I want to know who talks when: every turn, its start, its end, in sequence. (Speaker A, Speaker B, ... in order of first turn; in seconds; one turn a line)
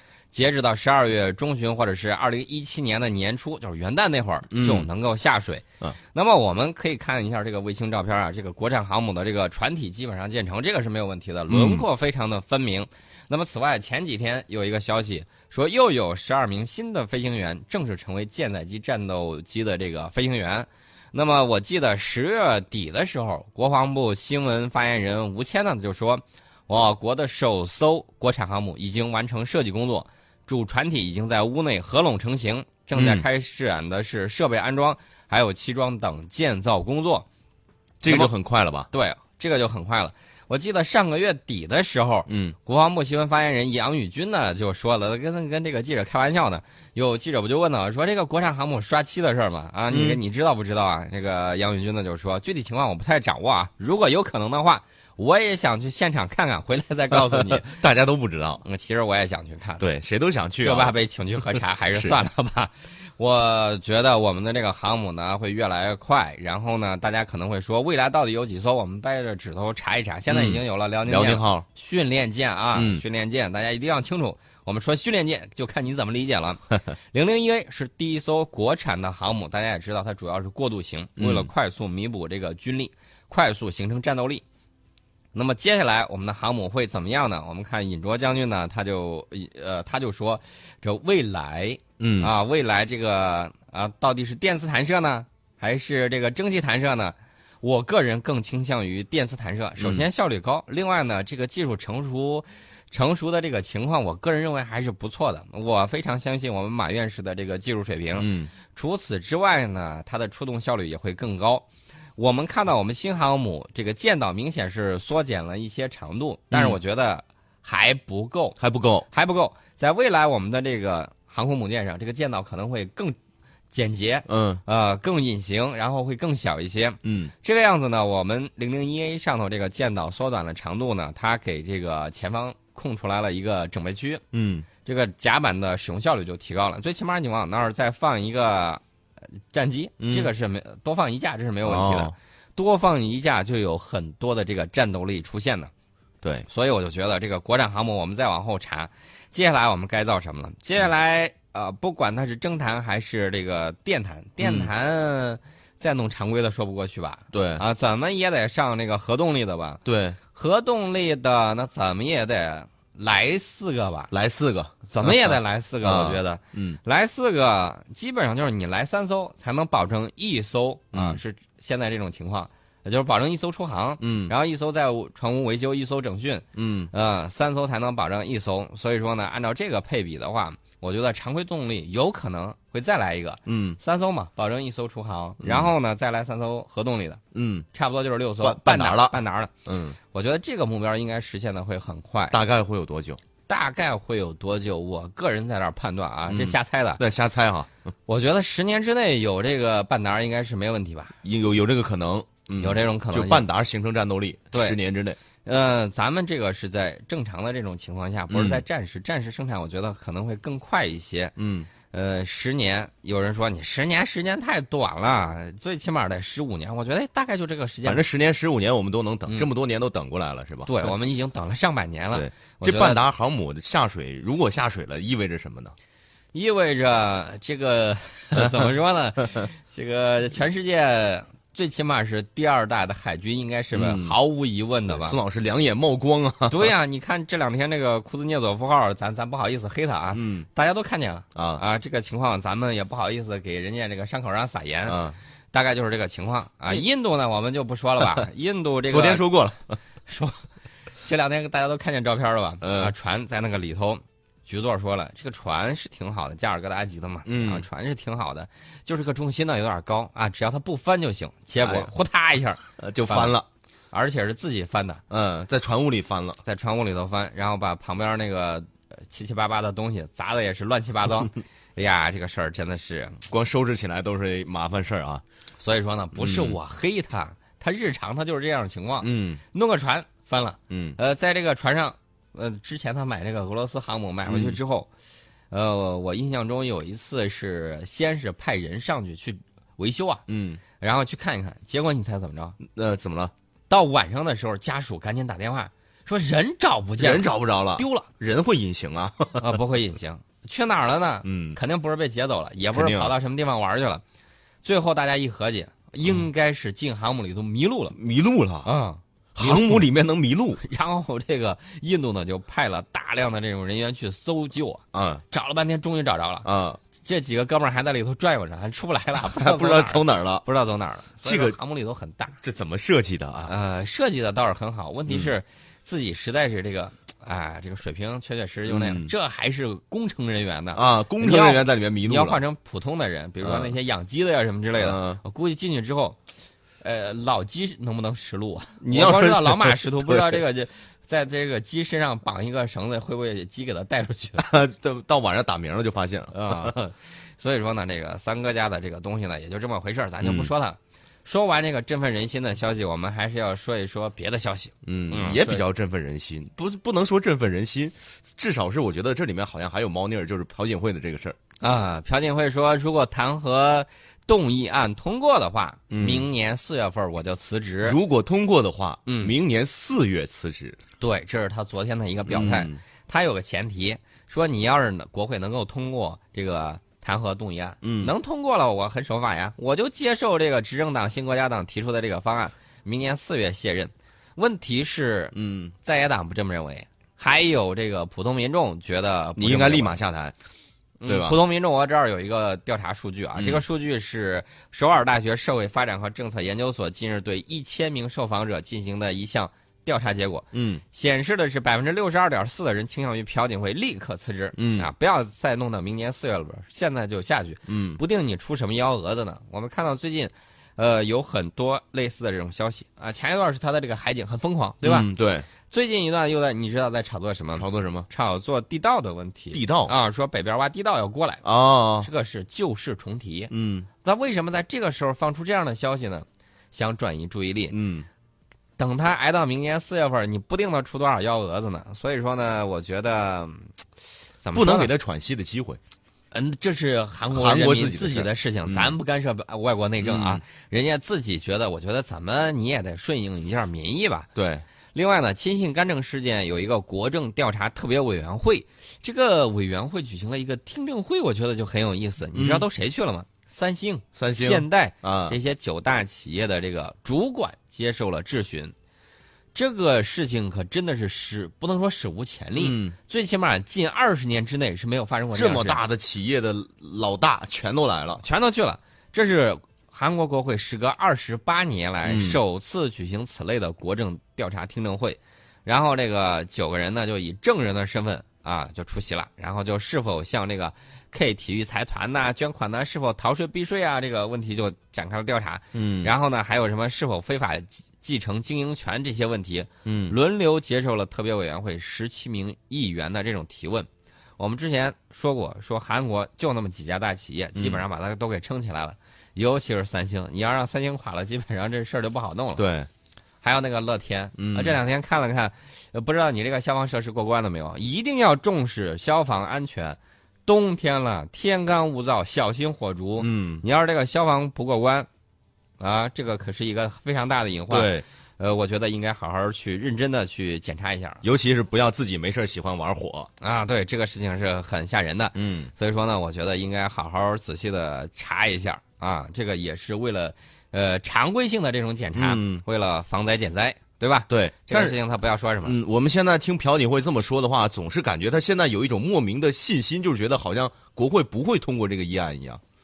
Speaker A: 0.3-37.3
Speaker B: 4.5-4.9
Speaker B: 11.5-11.8
Speaker B: 33.0-33.2
Speaker B: 38.0-38.9
Speaker A: 38.1-38.3
Speaker A: 38.9-57.9
Speaker B: 42.3-42.6
Speaker B: 49.9-50.2
Speaker B: 57.3-58.6
Speaker A: 58.6-59.8
Speaker B: 59.8-61.0
Speaker A: 60.6-84.4
Speaker B: 70.3-71.7
Speaker B: 72.8-73.0
Speaker B: 81.2-81.5
Speaker A: 85.3-111.7
Speaker B: 92.0-92.3
Speaker B: 99.8-100.1
Speaker B: 108.2-108.5
Speaker A: 112.2-118.6
Speaker B: 116.5-116.8
Speaker B: 118.6-119.1
Speaker A: 119.1-123.2
Speaker A: 123.7-134.2
Speaker B: 124.3-124.6
Speaker B: 127.0-127.3
Speaker B: 134.3-134.7
Speaker A: 134.9-138.8
Speaker A: 139.5-145.7
Speaker B: 140.0-140.3
Speaker B: 141.6-142.2
Speaker B: 146.2-146.5
Speaker A: 146.5-159.8
Speaker B: 154.4-154.7
Speaker B: 157.3-157.6
Speaker B: 159.8-160.2
Speaker A: 160.3-164.1
Speaker B: 164.1-166.8
Speaker A: 164.9-187.2
Speaker B: 170.9-171.2
Speaker B: 174.0-174.3
Speaker B: 176.6-176.9
Speaker B: 183.5-183.8
Speaker B: 185.4-185.7
Speaker B: 187.3-187.7
Speaker A: 187.7-189.5
Speaker B: 188.4-190.0
Speaker A: 190.1-192.4
Speaker B: 192.3-193.2
Speaker A: 193.5-197.0
Speaker B: 196.3-197.7
Speaker A: 198.1-201.2
Speaker B: 201.2-205.2
Speaker A: 202.6-203.5
Speaker A: 204.5-204.8
Speaker A: 205.4-211.3
Speaker B: 208.3-208.6
Speaker B: 211.4-211.7
Speaker A: 211.9-218.1
Speaker B: 217.8-220.9
Speaker A: 220.7-223.0
Speaker B: 222.1-225.8
Speaker A: 226.3-235.2
Speaker B: 233.7-234.2
Speaker B: 234.9-236.7
Speaker A: 236.5-245.0
Speaker B: 240.1-240.5
Speaker B: 241.3-241.6
Speaker B: 244.9-245.2
Speaker A: 245.5-249.2
Speaker B: 248.9-249.8
Speaker A: 250.1-250.5
Speaker A: 251.1-263.4
Speaker B: 252.6-252.9
Speaker B: 257.3-257.6
Speaker B: 261.6-261.9
Speaker B: 262.8-263.5
Speaker A: 263.9-265.0
Speaker B: 265.1-266.4
Speaker A: 266.4-273.3
Speaker B: 273.3-275.2
Speaker A: 275.6-284.9
Speaker B: 276.1-276.6
Speaker B: 279.0-279.4
Speaker B: 280.7-281.0
Speaker B: 284.3-284.6
Speaker A: 285.5-290.2
Speaker B: 290.3-290.6
Speaker A: 290.8-292.6
Speaker B: 292.6-293.3
Speaker A: 293.7-297.3
Speaker B: 297.0-299.5
Speaker A: 297.8-298.1
Speaker A: 299.4-304.0
Speaker B: 301.2-301.6
Speaker B: 302.7-303.1
Speaker A: 304.6-307.9
Speaker B: 307.9-308.7
Speaker A: 308.6-309.9
Speaker B: 309.4-310.6
Speaker A: 310.6-316.5
Speaker B: 314.9-315.2
Speaker B: 316.4-316.8
Speaker A: 317.0-322.4
Speaker B: 319.2-320.4
Speaker B: 321.2-321.6
Speaker B: 322.4-323.5
Speaker A: 323.4-336.2
Speaker B: 328.7-329.1
Speaker B: 330.8-332.4
Speaker B: 333.4-333.7
Speaker B: 334.8-335.2
Speaker A: 336.8-344.4
Speaker B: 338.8-340.3
Speaker B: 344.4-346.7
Speaker A: 346.3-355.6
Speaker B: 350.2-350.5
Speaker B: 354.9-361.4
Speaker A: 361.6-368.0
Speaker B: 365.9-366.3
Speaker B: 367.8-370.8
Speaker A: 369.1-369.3
Speaker A: 371.0-390.0
Speaker B: 372.3-372.8
Speaker B: 377.8-378.1
Speaker B: 385.3-385.7
Speaker B: 389.4-390.4
Speaker A: 391.0-415.1
Speaker B: 391.1-391.4
Speaker B: 393.4-393.6
Speaker B: 400.5-400.8
Speaker B: 404.6-404.9
Speaker B: 407.7-408.0
Speaker B: 414.8-415.5
Speaker A: 415.7-421.4
Speaker B: 417.6-418.1
Speaker B: 419.5-419.9
Speaker B: 421.4-422.1
Speaker A: 422.0-423.5
Speaker B: 423.5-423.9
Speaker A: 424.0-427.7
Speaker B: 427.7-428.1
Speaker A: 428.8-433.7
Speaker A: 434.4-434.9
Speaker B: 434.5-435.8
Speaker A: 436.3-444.3
Speaker B: 437.3-438.9
Speaker B: 440.0-440.4
Speaker B: 444.4-444.6
Speaker A: 444.9-458.7
Speaker B: 452.3-452.7
Speaker B: 454.1-455.4
Speaker A: 459.6-465.8
Speaker B: 462.6-463.0
Speaker B: 465.3-468.2
Speaker A: 468.2-502.6
Speaker B: 472.0-472.4
Speaker B: 485.7-486.1
Speaker B: 489.9-490.2
Speaker B: 497.6-497.8
Speaker B: 502.6-502.9
Speaker A: 503.4-515.1
Speaker B: 504.4-504.8
Speaker B: 513.2-513.6
Speaker A: 515.8-521.2
Speaker B: 517.7-518.0
Speaker B: 521.2-523.3
Speaker A: 523.4-535.8
Speaker B: 525.4-525.7
Speaker B: 532.1-532.6
Speaker B: 534.3-535.0
Speaker B: 535.6-542.6